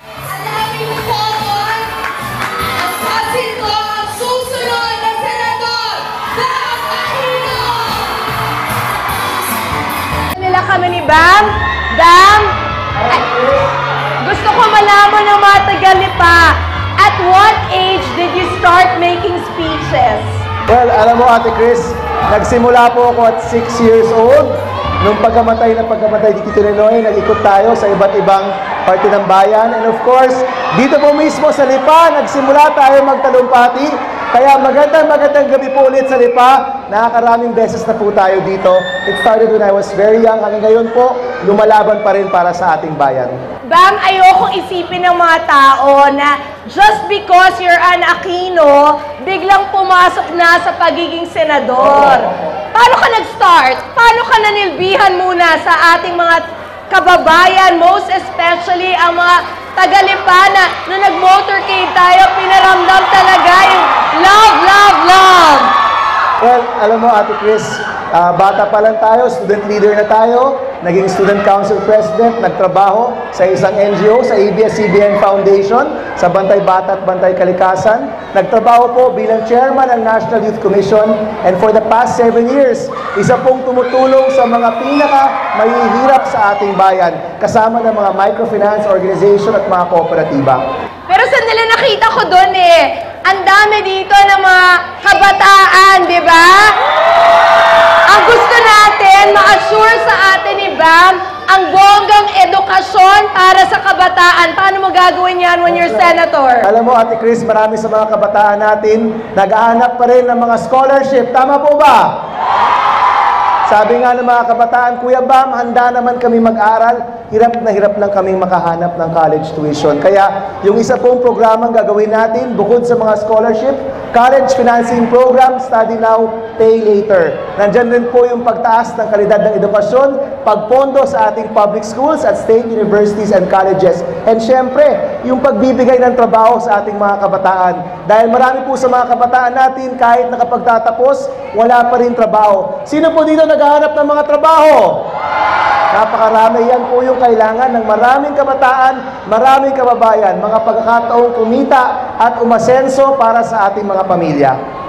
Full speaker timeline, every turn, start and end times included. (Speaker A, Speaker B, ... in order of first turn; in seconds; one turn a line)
Speaker A: 0.3-1.8
Speaker A: 2.7-8.2
Speaker A: 10.3-12.5
Speaker B: 13.0-13.7
Speaker A: 14.2-20.4
Speaker B: 20.7-43.3
Speaker A: 43.7-65.7
Speaker B: 66.4-90.6
Speaker A: 91.1-96.7
Speaker A: 98.1-106.7
Speaker B: 106.6-112.0
Speaker B: 113.7-144.9
Speaker B: 145.9-154.6